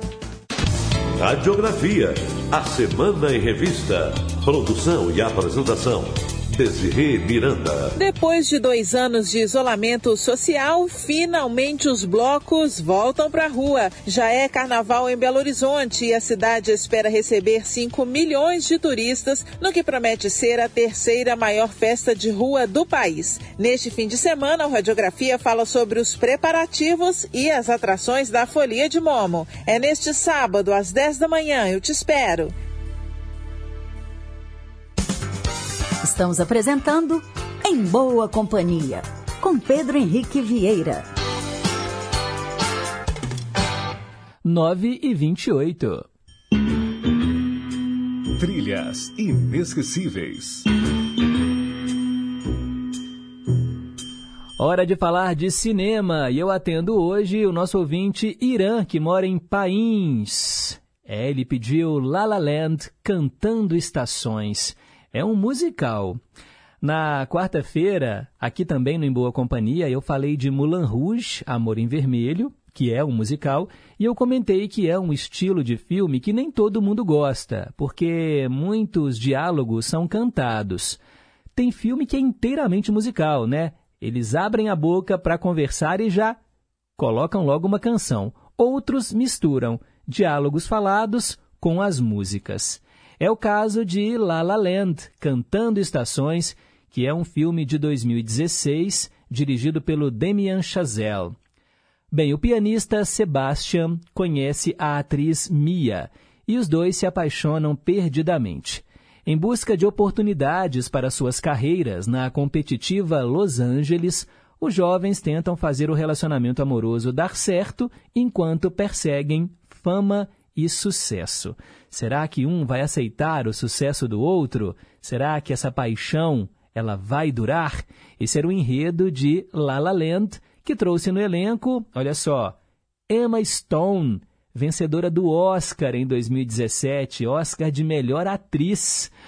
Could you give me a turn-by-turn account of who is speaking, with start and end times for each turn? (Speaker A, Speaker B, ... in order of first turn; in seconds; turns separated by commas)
Speaker A: 1.2-7.9, Speaker B: 8.0-32.5, Speaker C: 36.0-41.1, Speaker D: 44.5-46.1, Speaker E: 48.4-50.6, Speaker D: 54.6-66.2, Speaker D: 66.8-81.0, Speaker D: 81.6-86.4, Speaker D: 87.0-101.3, Speaker D: 102.1-132.6, Speaker D: 133.1-139.1